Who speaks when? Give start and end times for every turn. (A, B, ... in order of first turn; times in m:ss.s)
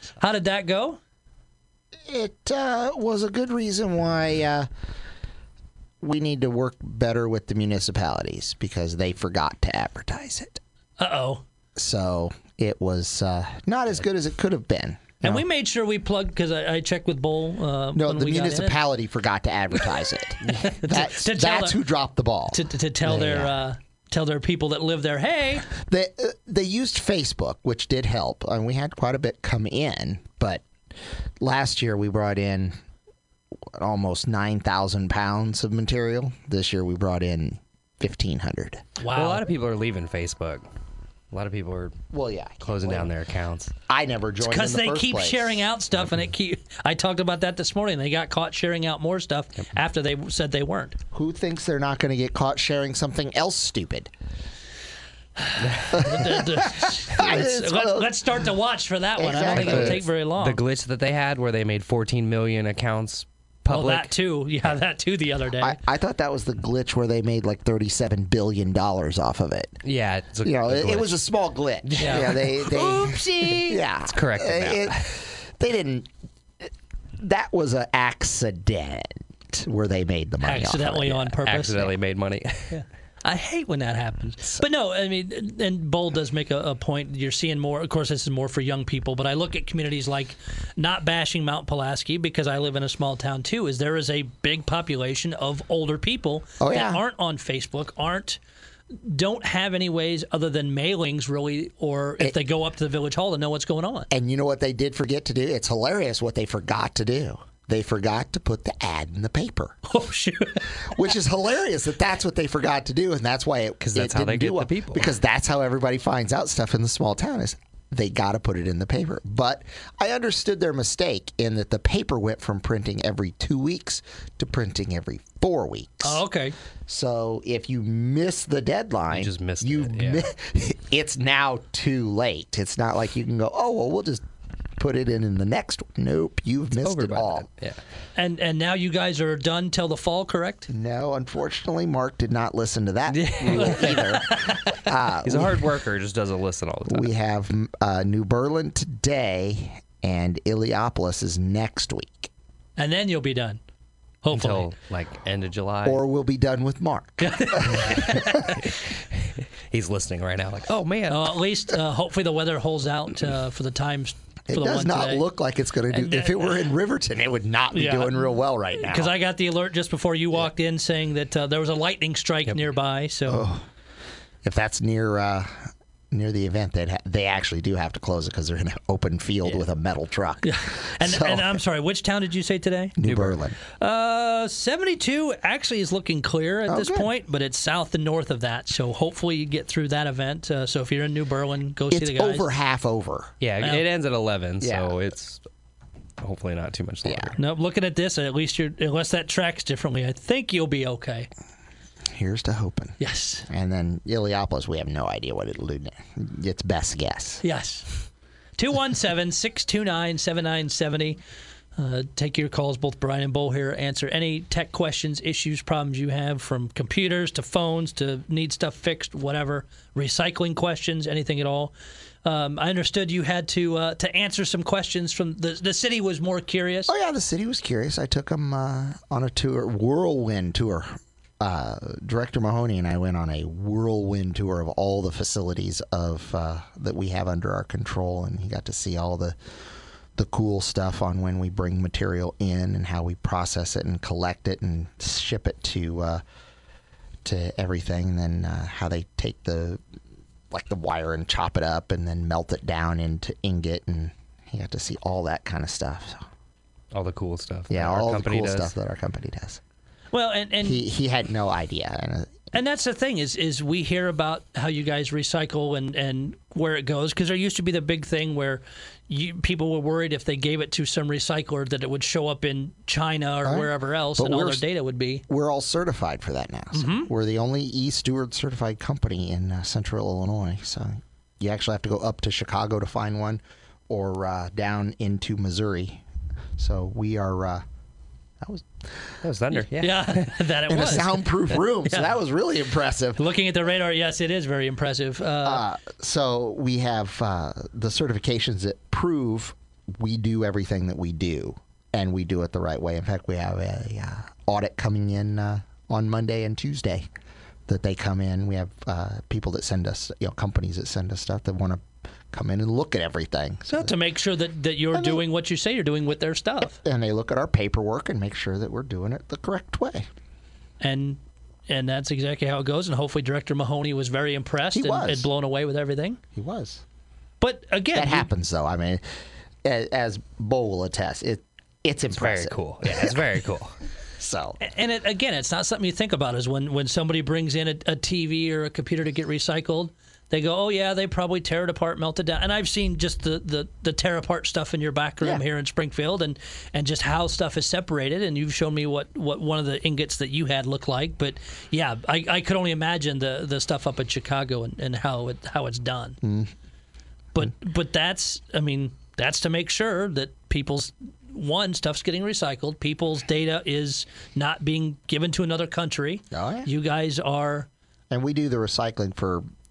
0:00.2-0:01.0 A
0:02.0-0:04.7 B
0:06.0-0:10.6 B
0:11.0-0:11.4 A
0:11.8-0:15.4 B
0:15.2-0:18.8 A
0:17.9-0:23.6 B
0:20.4-0:21.8 A
0:22.5-0:25.7 A
0:25.6-0:30.6 B
0:31.4-0:32.8 B
0:33.7-0:38.8 B
0:39.0-0:39.5 A
0:39.1-0:40.6 C
0:41.3-0:42.0 C
0:42.1-0:43.1 B
0:42.6-0:43.7 C
0:43.9-0:45.6 B
0:44.4-0:51.0 A
0:51.1-0:54.1 B
0:55.4-1:00.6 A
0:55.9-0:58.2 B
0:59.2-1:00.0 B
0:59.4-1:04.1 C
1:03.7-1:05.8 A
1:05.6-1:09.8 B
1:09.8-1:11.2 C
1:10.4-1:21.4 B
1:11.9-1:12.7 C
1:12.0-1:13.8 A
1:14.1-1:15.1 C
1:20.4-1:21.9 A
1:21.4-1:22.8 C
1:22.7-1:38.4 A
1:36.6-1:37.0 B
1:38.9-1:44.1 A
1:44.1-1:49.8 B
1:49.9-1:50.8 A
1:50.7-2:06.2 B
1:53.9-1:55.1 C
2:06.0-2:06.6 A
2:06.9-2:14.2 B
2:09.1-2:10.3 C
2:14.8-2:17.4 B
2:16.8-2:17.8 C
2:18.2-2:20.7 A
2:20.7-2:25.7 B
2:23.1-2:24.0 C
2:23.6-2:24.6 A
2:25.2-2:27.1 C
2:26.8-2:32.3 B
2:32.8-2:33.6 A
2:34.2-2:34.7 A
2:34.3-2:36.0 C
2:35.8-2:38.6 B
2:37.2-2:38.6 A
2:38.5-2:41.3 C
2:41.1-2:45.2 A
2:44.5-2:49.1 B
2:45.9-2:46.7 A
2:47.7-2:48.3 A
2:48.8-2:53.5 A
2:53.3-2:53.7 B
2:54.4-3:01.6 B
3:00.4-3:03.0 A
3:03.0-3:03.6 B
3:03.0-3:03.4 C
3:03.8-3:12.5 A
3:06.7-3:07.1 B
3:11.9-3:13.3 B
3:13.4-3:15.4 C
3:14.6-3:15.0 B
3:16.2-3:17.4 C
3:17.0-3:17.4 B
3:17.4-3:21.3 A
3:22.1-3:27.4 B
3:23.0-3:23.5 A
3:27.4-3:27.9 A
3:28.6-3:31.2 A
3:31.8-3:46.9 A
3:46.9-3:59.4 B
4:00.1-4:06.2 B
4:07.2-4:09.8 B
4:10.5-4:16.2 B
4:16.9-4:18.7 C
4:17.7-4:19.6 B
4:20.1-4:20.8 A
4:20.6-4:22.5 B
4:22.5-4:35.2 A
4:33.4-4:34.6 B
4:35.3-4:46.0 B
4:36.7-4:37.1 A
4:46.6-4:47.6 B
4:48.4-4:49.2 B
4:49.2-4:50.4 C
4:49.7-4:51.2 A
4:50.7-4:53.2 B
4:53.2-4:55.6 A
4:55.4-5:07.1 B
5:07.7-5:13.9 B
5:13.7-5:16.8 A
5:14.9-5:15.2 B
5:16.8-5:20.1 B
5:20.8-5:26.2 A
5:24.7-5:25.3 B
5:26.3-5:26.8 B
5:27.4-5:28.3 A
5:27.9-5:29.0 B
5:29.6-5:33.3 B
5:32.1-5:33.7 C
5:34.2-5:34.6 B
5:34.6-5:56.2 A
5:56.2-5:56.5 B
5:57.3-6:07.7 A
6:06.3-6:06.7 B
6:08.1-6:09.4 B